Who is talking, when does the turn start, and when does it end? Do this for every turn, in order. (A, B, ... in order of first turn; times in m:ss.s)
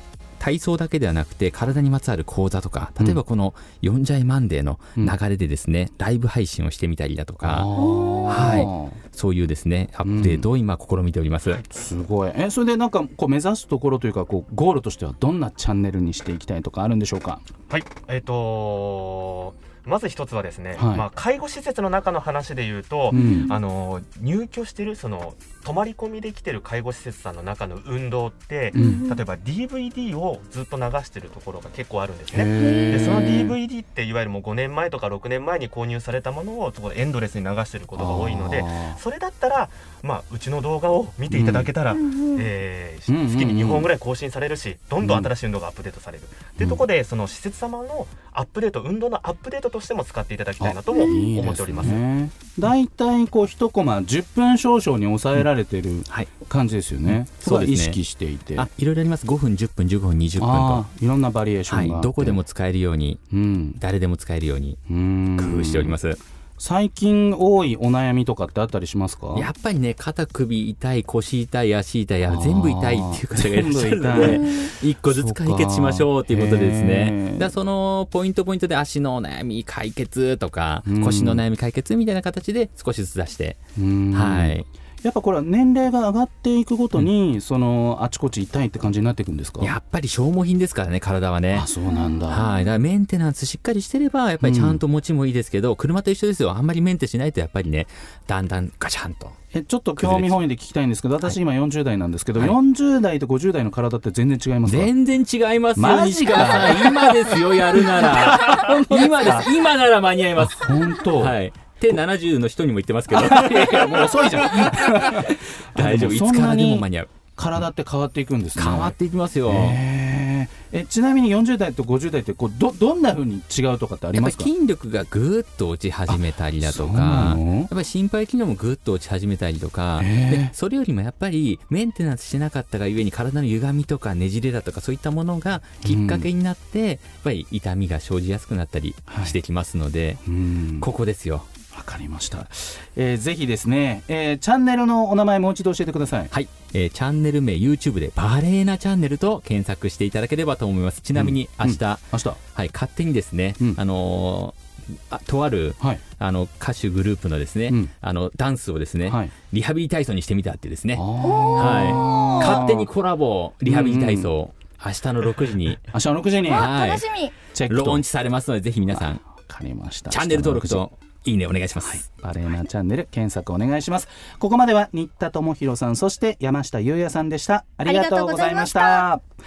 0:00.4-0:07.7 A
0:07.4-0:09.0 B
0:07.8-0:08.3 C
0:08.3-0:11.6 A
0:10.0-0:10.4 B
0:11.7-0:17.4 B
0:17.7-0:52.0 D
0:20.7-0:21.0 B
0:23.1-0:23.5 B
0:23.1-0:23.6 C
0:28.7-0:29.0 B
0:28.7-0:29.2 C
0:32.3-0:33.6 B
0:32.5-0:33.4 C
0:37.9-0:39.0 B
0:41.3-0:41.7 B
0:41.9-0:42.5 C
0:43.1-0:43.9 B
0:45.0-0:45.3 B
0:50.6-0:58.7 B
0:50.9-0:51.2 C
0:57.0-0:58.0 A
0:58.6-1:00.8 A
1:00.4-1:02.4 B
1:01.7-1:03.2 A
1:03.3-1:03.8 B
1:03.8-1:04.8 A
1:04.9-1:06.0 B
1:05.4-1:06.2 A
1:06.6-1:09.5 B
1:09.3-1:23.6 A
1:12.3-1:17.5 B
1:14.2-1:14.7 C
1:20.8-1:21.4 B
1:23.8-1:29.7 B
1:24.1-1:24.6 A
1:29.6-1:31.7 A
1:31.5-1:32.4 B
1:31.9-1:32.2 C
1:32.3-1:39.4 A
1:34.4-1:34.8 B
1:39.5-1:44.9 B
1:40.0-1:40.3 A
1:44.6-1:57.1 A
1:45.7-1:49.5 B
1:50.4-1:51.4 B
1:53.1-1:59.0 B
1:58.6-1:59.8 A
1:59.5-2:04.5 B
2:04.2-2:20.2 A
2:06.1-2:07.7 B
2:10.0-2:10.5 B
2:15.8-2:16.3 B
2:19.1-2:19.4 B
2:20.2-2:20.9 B
2:20.8-2:21.5 A
2:21.7-2:26.3 B
2:26.3-2:34.6 A
2:31.1-2:32.4 B
2:35.1-2:45.9 A
2:39.0-2:39.3 B
2:40.9-2:42.9 B
2:41.2-2:42.6 C
2:43.6-2:44.3 B
2:45.9-2:46.8 B
2:46.4-2:47.3 C
2:46.5-2:47.1 A
2:47.5-2:48.0 B
2:47.6-2:49.2 A
2:48.9-2:50.8 B
2:50.1-2:52.0 A
2:51.8-2:59.2 B
2:57.8-2:59.1 C